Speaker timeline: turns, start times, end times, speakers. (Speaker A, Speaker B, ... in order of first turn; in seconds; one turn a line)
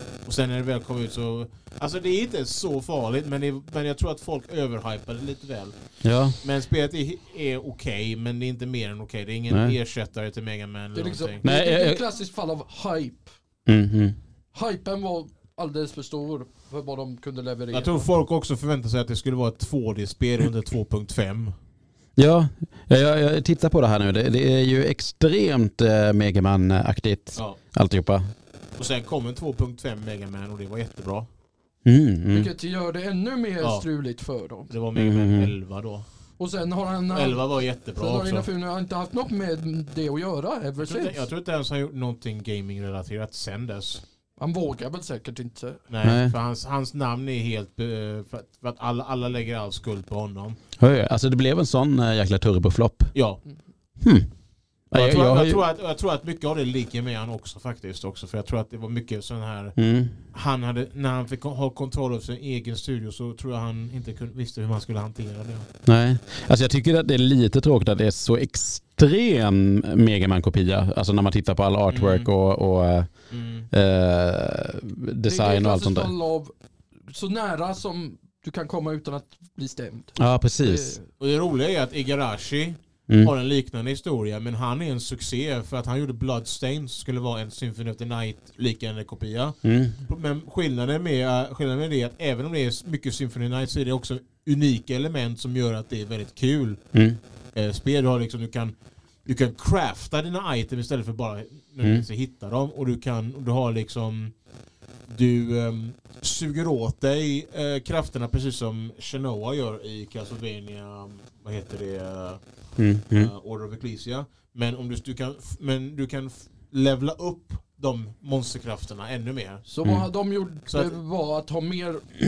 Speaker A: 0.2-5.7
Speaker B: 6.0-6.4
Speaker A: 6.4-11.4
Speaker B: 9.5-9.8
Speaker C: 10.9-13.3
Speaker B: 11.4-12.0
Speaker B: 13.7-14.2
Speaker C: 14.5-18.1
Speaker A: 17.7-21.5
Speaker B: 22.2-28.3
Speaker A: 28.8-31.3
Speaker B: 31.8-32.5
Speaker C: 32.3-34.7
Speaker A: 33.6-33.9
Speaker A: 34.7-36.0
Speaker B: 35.0-35.5
Speaker C: 36.4-41.2
Speaker A: 37.1-38.5
Speaker A: 40.8-44.0
Speaker C: 44.4-45.8
Speaker A: 45.9-50.6
Speaker B: 46.0-46.3
Speaker B: 50.8-53.1
Speaker A: 53.1-53.4
Speaker B: 54.0-54.3
Speaker B: 54.9-55.6
Speaker A: 54.9-59.8
Speaker B: 59.8-60.2
Speaker A: 60.3-65.7
Speaker B: 65.8-73.1
Speaker A: 71.9-72.3
Speaker A: 73.3-73.7
Speaker B: 73.7-76.1
Speaker C: 75.2-76.5
Speaker C: 77.1-81.1
Speaker B: 80.2-80.9
Speaker A: 81.2-96.9
Speaker B: 89.6-90.0
Speaker A: 97.5-104.3
Speaker A: 105.1-112.4
Speaker B: 112.8-113.3
Speaker A: 113.1-119.6
Speaker C: 119.7-122.1
Speaker A: 120.7-120.9